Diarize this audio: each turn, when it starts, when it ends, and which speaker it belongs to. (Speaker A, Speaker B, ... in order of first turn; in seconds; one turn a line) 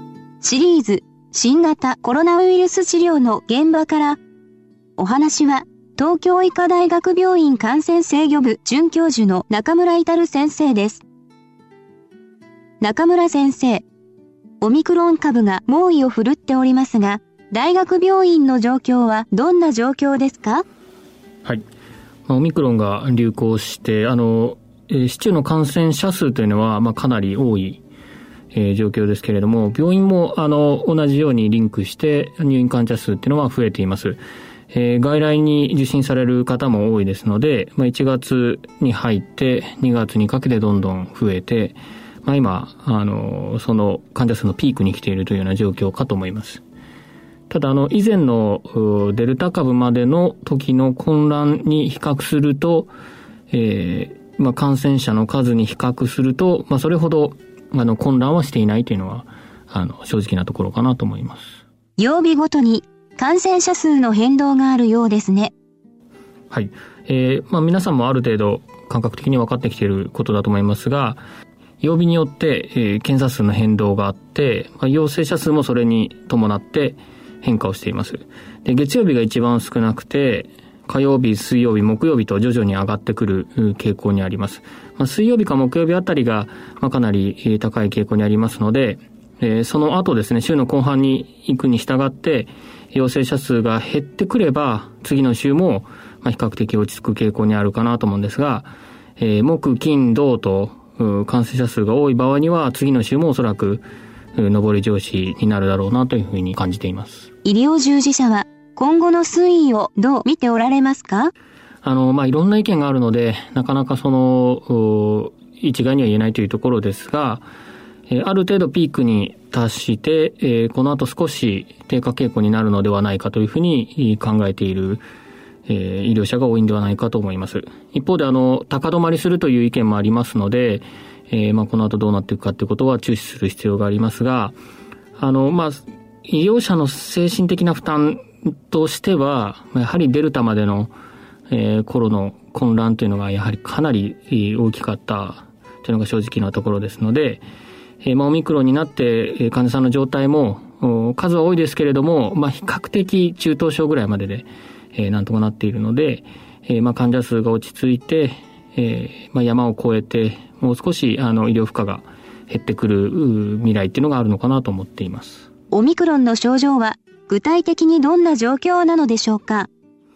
Speaker A: 0.4-4.2
Speaker A: 5.0-11.0
Speaker A: 12.8-13.8
Speaker A: 14.6-20.6
Speaker B: 22.3-27.8
Speaker B: 28.5-34.2
Speaker B: 34.7-46.6
Speaker B: 47.5-52.9
Speaker B: 53.5-61.6
Speaker A: 62.0-65.5
Speaker B: 66.5-71.2
Speaker B: 71.8-103.8
Speaker B: 104.3-107.3
Speaker A: 107.4-111.3
Speaker B: 111.8-117.4
Speaker B: 118.1-125.0
Speaker B: 125.7-134.5
Speaker B: 135.2-140.9
Speaker B: 141.5-147.4
Speaker B: 148.0-165.5
Speaker A: 165.7-169.7